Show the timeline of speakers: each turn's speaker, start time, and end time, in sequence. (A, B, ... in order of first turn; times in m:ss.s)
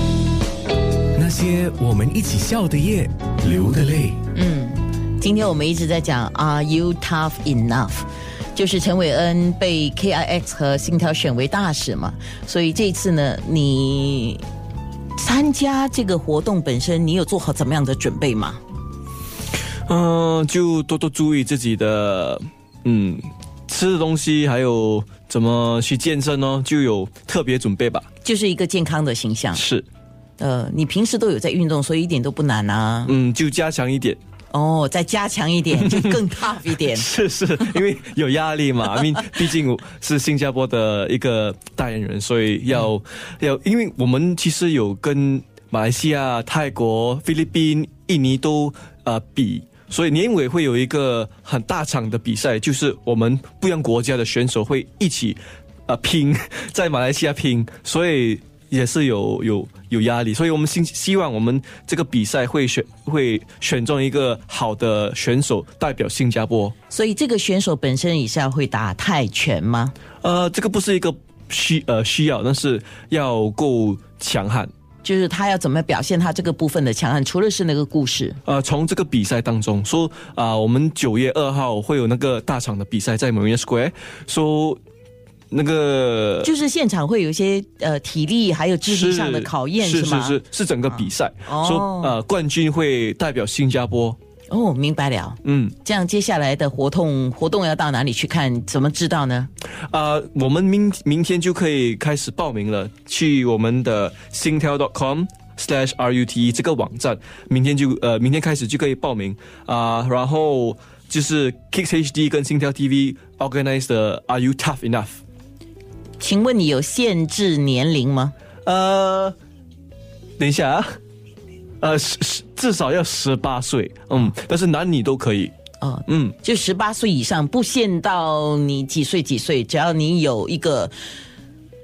0:01.1-0:04.2 A
0:04.3-0:14.4 B
0:15.2-0:18.6 B
0:19.9-0:28.1 C
0:28.2-0:29.6 B
0:29.5-0:29.8 C
0:30.4-0:33.1 B
0:33.0-0:34.2 C
0:34.5-0:37.1 B
0:35.9-0:36.1 C
0:36.9-1:06.7 C
1:06.9-1:09.9 B
1:10.2-1:14.7 C
1:15.0-1:18.4 B
1:18.4-1:24.8 C
1:25.5-1:26.5 C
1:26.4-1:30.4 B
1:28.8-1:34.2 C
1:31.4-1:32.2 B
1:34.5-1:39.5 B
1:35.4-1:35.7 C
1:39.9-1:55.2 C
1:56.2-1:58.3 B
1:58.6-1:59.4 C
2:00.4-2:00.9 C
2:01.8-2:05.5 C
2:05.8-2:10.9 B
2:06.1-2:06.4 C